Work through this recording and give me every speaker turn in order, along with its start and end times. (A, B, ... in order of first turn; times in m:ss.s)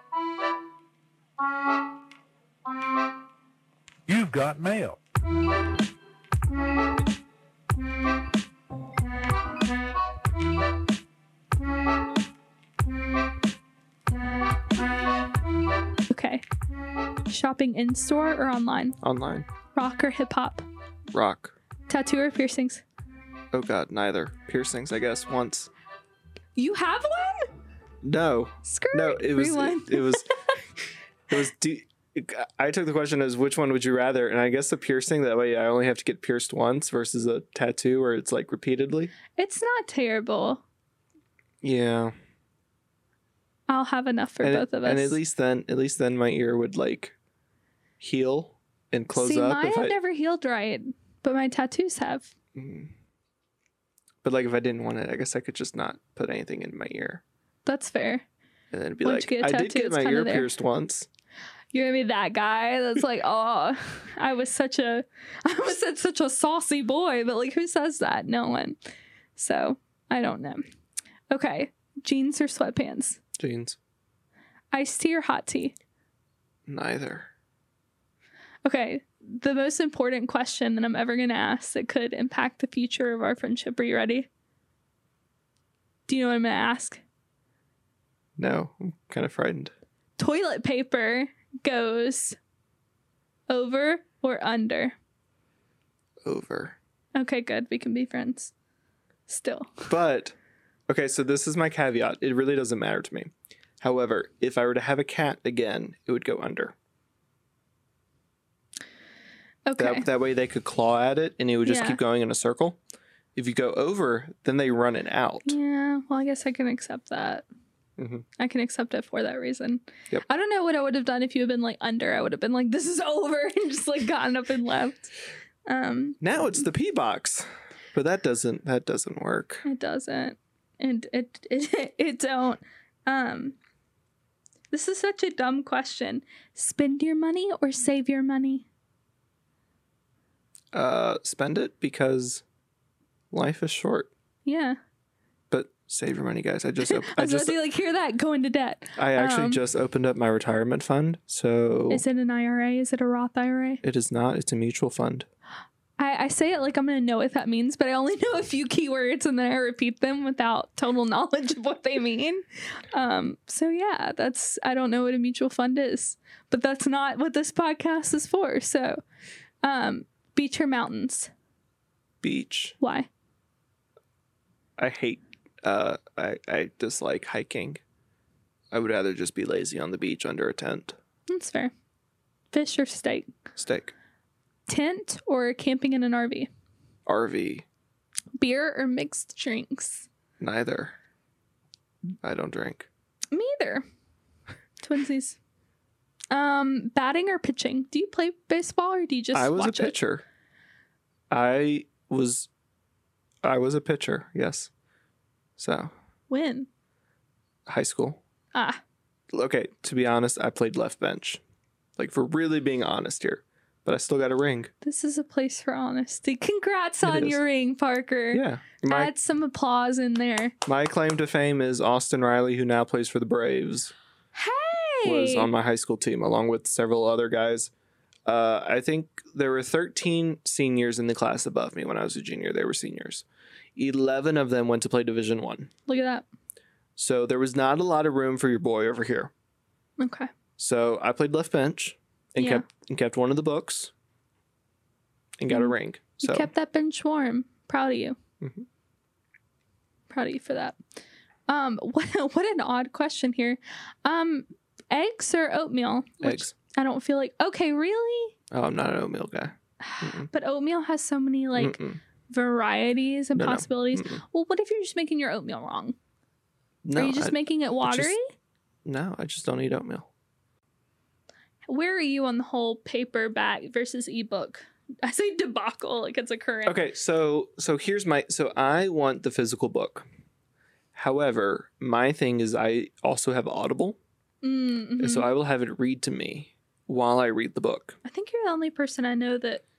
0:16.1-0:16.4 A
0:17.3-0:19.0 A
0:19.0-0:19.5 B
0:19.7-0:20.6 A
0:21.1-0:21.5 B
0:21.9-0:22.8 A
0:23.5-0:25.7 B
0:26.6-0:27.5 A
0:28.0-0:30.3 B
0:28.6-0:30.2 A
0:31.3-0:39.1 B
0:39.3-0:40.6 A
0:41.6-0:42.1 B
0:43.7-0:45.2 A
0:44.4-0:47.2 B
0:48.0-0:50.0 B
0:49.1-0:52.3 A
0:52.6-0:52.9 B
0:54.2-0:57.2 B
0:57.6-0:58.2 A
0:58.7-1:01.1 B
0:59.0-1:00.5 A
1:01.7-1:08.8 A
1:09.4-1:10.6 A
1:11.3-1:13.2 A
1:13.4-1:13.8 B
1:14.7-1:15.8 A
1:16.7-1:17.3 B
1:18.6-1:24.3 A
1:26.1-1:27.0 A
1:28.4-1:29.7 B
1:30.2-1:32.4 A
1:33.5-1:35.0 A
1:36.2-1:36.8 B
1:37.2-1:38.5 A
1:39.3-1:39.9 A
1:39.9-1:40.3 B
1:40.9-1:46.7 B
1:49.7-1:50.0 A
1:49.8-1:52.8 B
1:51.6-1:52.0 A
1:53.4-1:55.6 B
1:55.4-1:57.4 A
1:58.0-1:58.2 B
1:58.4-2:05.1 A
2:05.7-2:06.2 A
2:06.2-2:09.6 B
2:09.6-2:13.6 A
2:14.7-2:18.7 A
2:20.7-2:22.4 B
2:23.3-2:24.1 B
2:24.4-2:24.8 A
2:25.5-2:27.6 B
2:26.8-2:29.6 A
2:29.0-2:32.0 B
2:31.9-2:33.8 A
2:33.8-2:35.3 B
2:36.0-2:49.0 A
2:49.6-2:51.3 A
2:52.2-2:52.8 B
2:52.8-2:53.1 A
2:54.8-2:57.8 B
2:58.7-3:00.9 B
3:01.3-3:01.7 A
3:02.5-3:03.3 A
3:03.6-3:03.9 B
3:04.7-3:06.5 A
3:07.0-3:07.6 B
3:08.4-3:10.1 A
3:10.4-3:11.0 B
3:12.2-3:12.9 B
3:13.3-3:13.8 A
3:14.8-3:15.4 A
3:16.3-3:19.9 A
3:19.3-3:20.2 B
3:21.3-3:22.5 B
3:23.4-3:24.7 B
3:25.6-3:25.9 B
3:26.3-3:26.7 A
3:27.7-3:28.2 B
3:28.5-3:28.8 A
3:29.3-3:31.4 B
3:32.0-3:34.7 B
3:34.8-3:40.5 A
3:37.0-3:37.4 B
3:38.3-3:39.1 B
3:40.6-3:43.9 B
3:44.3-3:45.5 A
3:45.0-3:47.7 B
3:48.2-3:55.7 B
3:55.9-3:56.2 A
3:57.0-3:59.3 B
4:00.0-4:00.3 A
4:00.6-4:03.9 B
4:02.4-4:02.6 A
4:05.4-4:06.5 B
4:05.5-4:08.2 A
4:08.4-4:08.6 B
4:10.1-4:10.8 A
4:11.5-4:18.4 A
4:16.2-4:16.5 B
4:18.5-4:20.3 B
4:19.8-4:21.8 A
4:21.6-4:22.0 B
4:22.3-4:26.0 A
4:23.3-4:24.2 B
4:26.8-4:28.1 B
4:27.0-4:28.3 A
4:28.8-4:30.1 B
4:31.7-4:36.8 A
4:36.6-4:40.0 B
4:41.0-4:44.0 B
4:44.4-4:45.3 A
4:45.0-4:48.0 B
4:48.0-4:49.6 A